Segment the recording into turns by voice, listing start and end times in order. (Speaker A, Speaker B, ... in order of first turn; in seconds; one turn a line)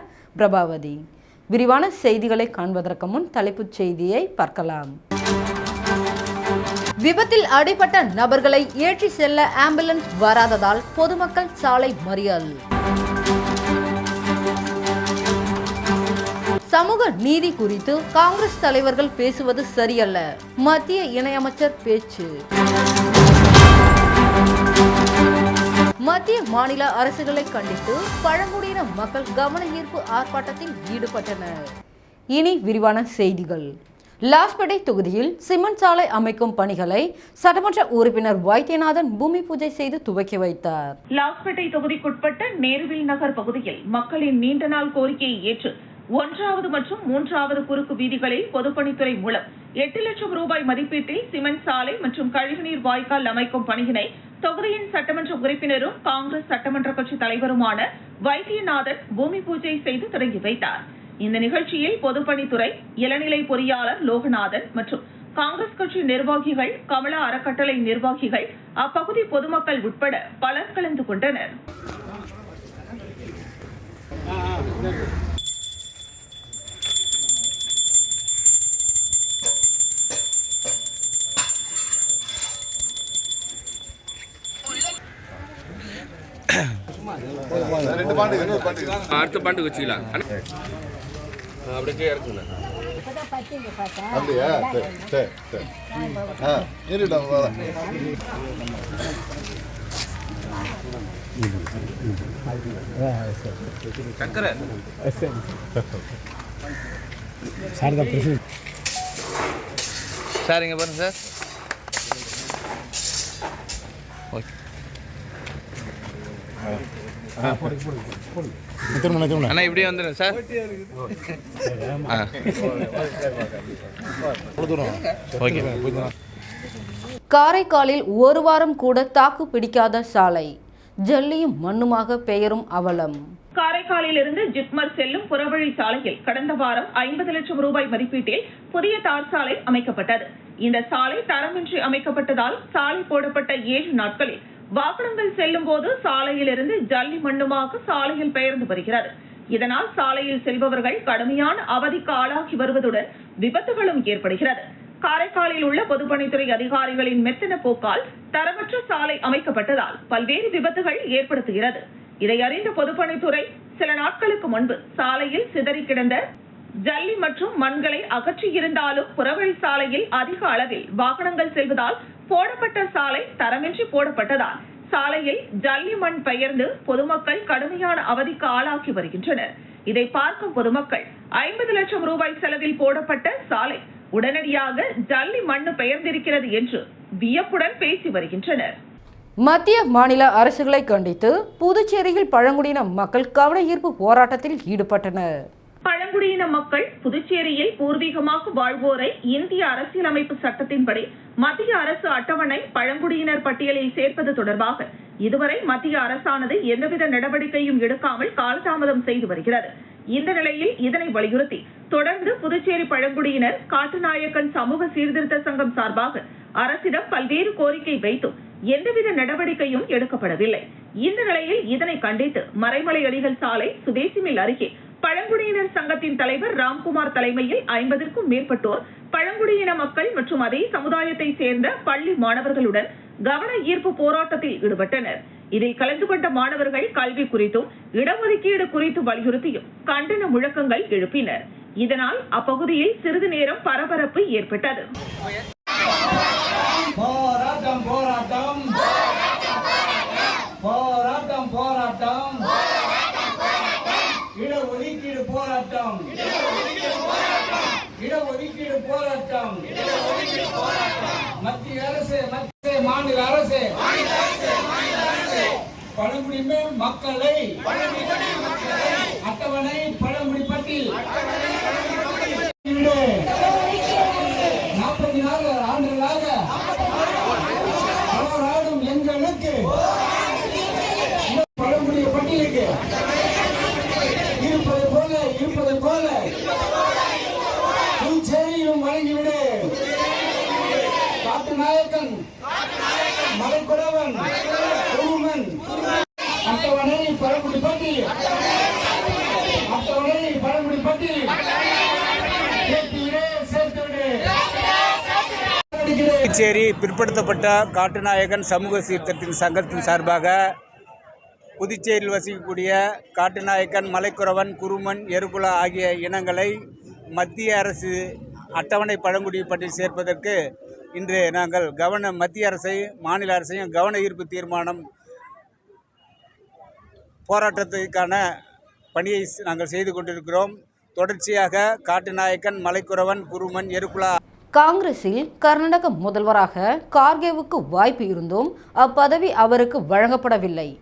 Speaker A: 0.4-1.0
Speaker A: 1.5-4.9
Speaker A: 7.0-12.6
Speaker A: 16.7-22.3
Speaker A: 26.0-31.5
Speaker A: 32.3-33.7
Speaker A: 34.3-41.0
Speaker B: 41.1-71.5
Speaker C: 87.5-89.0
Speaker D: 89.1-90.2
Speaker D: 91.7-92.4
Speaker C: 94.0-95.7
Speaker C: 96.4-97.6
Speaker D: 104.2-104.6
Speaker D: 110.4-111.1
Speaker D: 119.5-120.4
Speaker D: 125.4-125.9
Speaker A: 127.3-130.5
Speaker A: 131.1-133.2
Speaker B: 133.6-166.2
Speaker B: 166.8-188.7
Speaker A: 189.4-195.3
Speaker B: 195.9-244.9
Speaker E: 246.9-248.7
Speaker E: 250.6-252.5
Speaker E: 254.3-256.1
Speaker E: 258.0-259.6
Speaker E: 261.4-263.7
Speaker E: 266.0-268.0
Speaker E: 269.2-270.9
Speaker E: 272.5-273.0
Speaker E: 274.8-276.3
Speaker E: 278.1-279.7
Speaker E: 281.3-282.7
Speaker E: 284.4-286.3
Speaker E: 288.0-289.8
Speaker E: 291.2-292.2
Speaker E: 293.4-294.4
Speaker E: 294.9-295.6
Speaker E: 296.4-298.1
Speaker E: 299.7-301.4
Speaker E: 302.6-304.2
Speaker E: 305.7-306.2
Speaker F: 306.3-310.4
Speaker F: 311.6-316.5
Speaker F: 317.2-320.4
Speaker F: 321.0-324.8
Speaker F: 327.3-328.2
Speaker F: 328.9-334.1
Speaker A: 334.6-340.7